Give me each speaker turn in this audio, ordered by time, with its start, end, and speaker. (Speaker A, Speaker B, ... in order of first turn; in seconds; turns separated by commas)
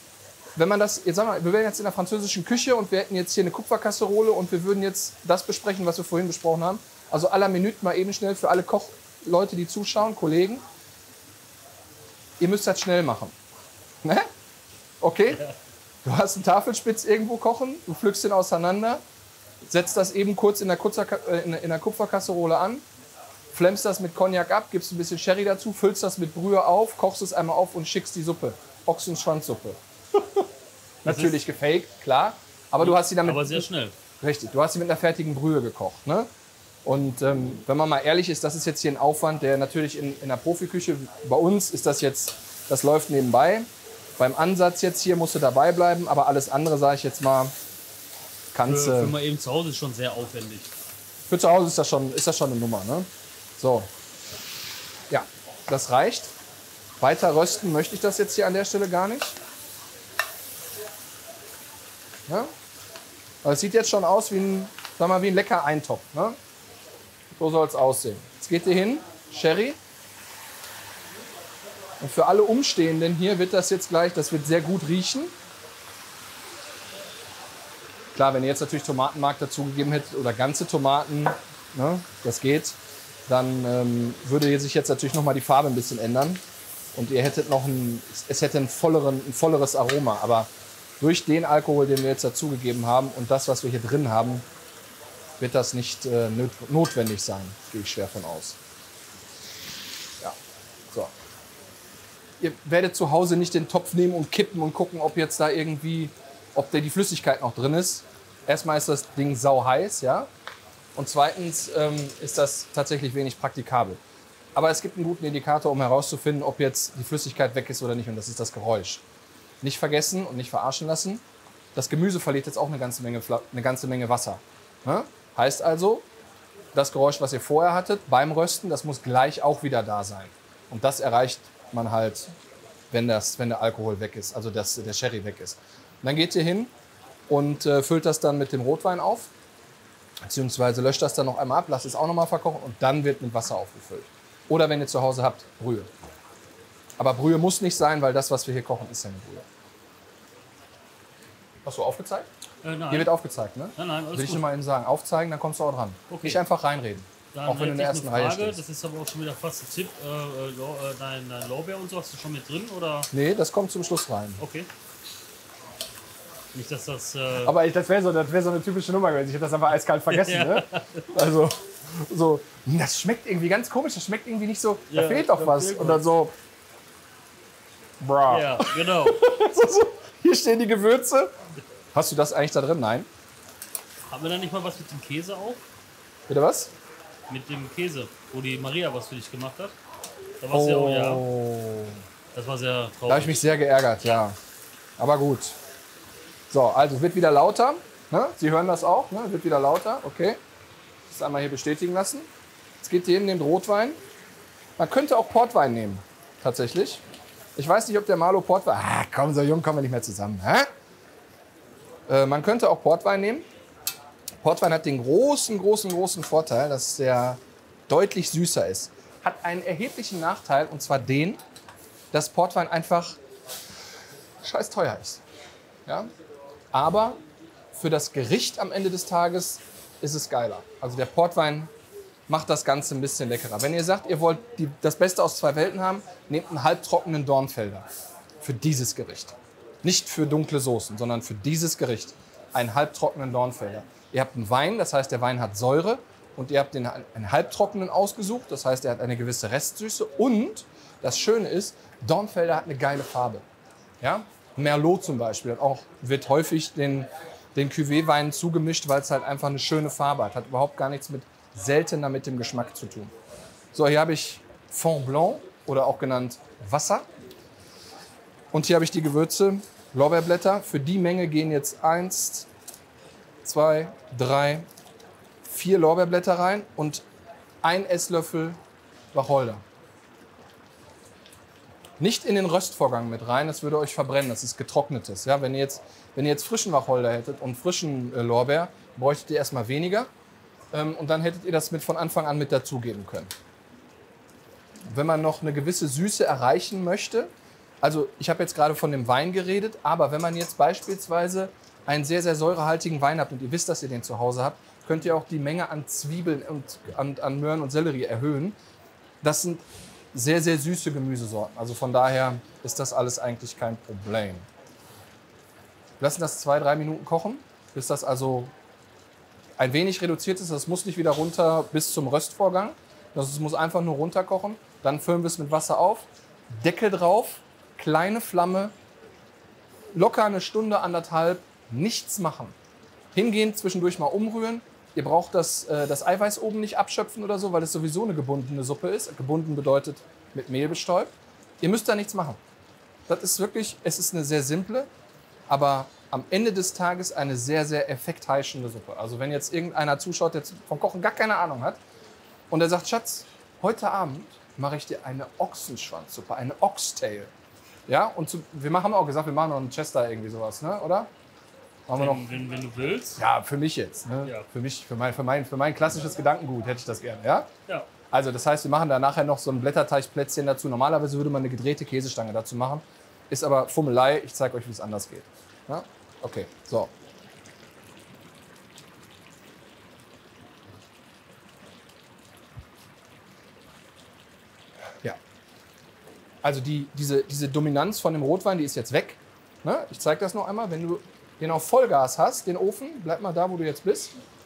Speaker A: 0.6-10.6, Speaker A: 12.4-13.3, Speaker A: 14.0-14.3, Speaker A: 15.0-15.5, Speaker A: 16.1-19.0, Speaker A: 19.7-22.8, Speaker A: 23.5-30.5, Speaker A: 31.0-33.7, Speaker B: 31.1-31.4, Speaker B: 32.8-34.0, Speaker A: 34.2-36.3, Speaker A: 36.9-47.5, Speaker A: 48.5-49.1, Speaker B: 48.7-50.7, Speaker A: 51.3-53.9, Speaker A: 55.1-56.3, Speaker A: 57.0-59.4, Speaker A: 62.3-62.5, Speaker A: 63.4-66.4, Speaker A: 67.3-69.8, Speaker A: 72.0-75.3, Speaker A: 78.1-86.4, Speaker A: 87.0-94.5, Speaker A: 95.4-98.6, Speaker A: 102.4-110.3, Speaker A: 111.0-114.0, Speaker A: 114.5-119.0, Speaker A: 119.6-121.2, Speaker A: 121.8-126.0, Speaker A: 126.7-132.3, Speaker A: 132.9-136.7, Speaker A: 137.3-139.3, Speaker A: 140.2-145.9, Speaker A: 147.0-149.4, Speaker A: 151.7-152.3, Speaker B: 152.6-153.1, Speaker A: 152.9-158.6, Speaker B: 153.8-154.5, Speaker B: 156.1-156.4, Speaker B: 157.3-163.1, Speaker A: 163.1-164.4, Speaker B: 164.4-164.7, Speaker B: 166.5-167.6, Speaker A: 167.4-176.3, Speaker B: 170.1-171.1, Speaker B: 174.9-176.0, Speaker A: 178.0-181.3, Speaker B: 178.3-179.2, Speaker A: 181.9-183.1, Speaker B: 184.1-185.6, Speaker A: 186.3-186.7, Speaker B: 187.3-189.8, Speaker B: 190.4-191.2, Speaker A: 190.5-192.0, Speaker B: 192.3-193.5, Speaker A: 193.1-194.4, Speaker A: 195.0-195.6, Speaker A: 196.5-200.4, Speaker A: 201.1-202.3, Speaker A: 202.8-204.0, Speaker A: 204.8-207.0, Speaker A: 207.6-210.7, Speaker A: 212.1-213.5, Speaker A: 214.4-221.4, Speaker A: 222.1-223.2, Speaker A: 224.4-225.2, Speaker A: 226.7-227.2, Speaker A: 227.7-231.7, Speaker A: 232.3-237.9, Speaker A: 238.4-253.4, Speaker A: 254.0-263.1, Speaker A: 263.7-267.1, Speaker A: 268.5-272.5, Speaker A: 273.4-274.7, Speaker A: 275.5-277.0, Speaker A: 277.6-278.6, Speaker A: 279.1-279.6, Speaker A: 282.0-290.1, Speaker A: 290.7-293.3, Speaker A: 294.9-308.6, Speaker A: 309.2-309.6, Speaker A: 310.1-314.5, Speaker A: 316.0-318.5, Speaker A: 319.6-328.7, Speaker A: 329.9-332.6, Speaker A: 333.1-342.4, Speaker A: 343.1-344.9, Speaker A: 345.5-351.8, Speaker A: 352.5-357.3, Speaker A: 357.9-361.1, Speaker A: 361.9-362.2, Speaker B: 361.9-363.2, Speaker A: 363.2-367.5, Speaker A: 368.1-376.9, Speaker A: 386.4-394.2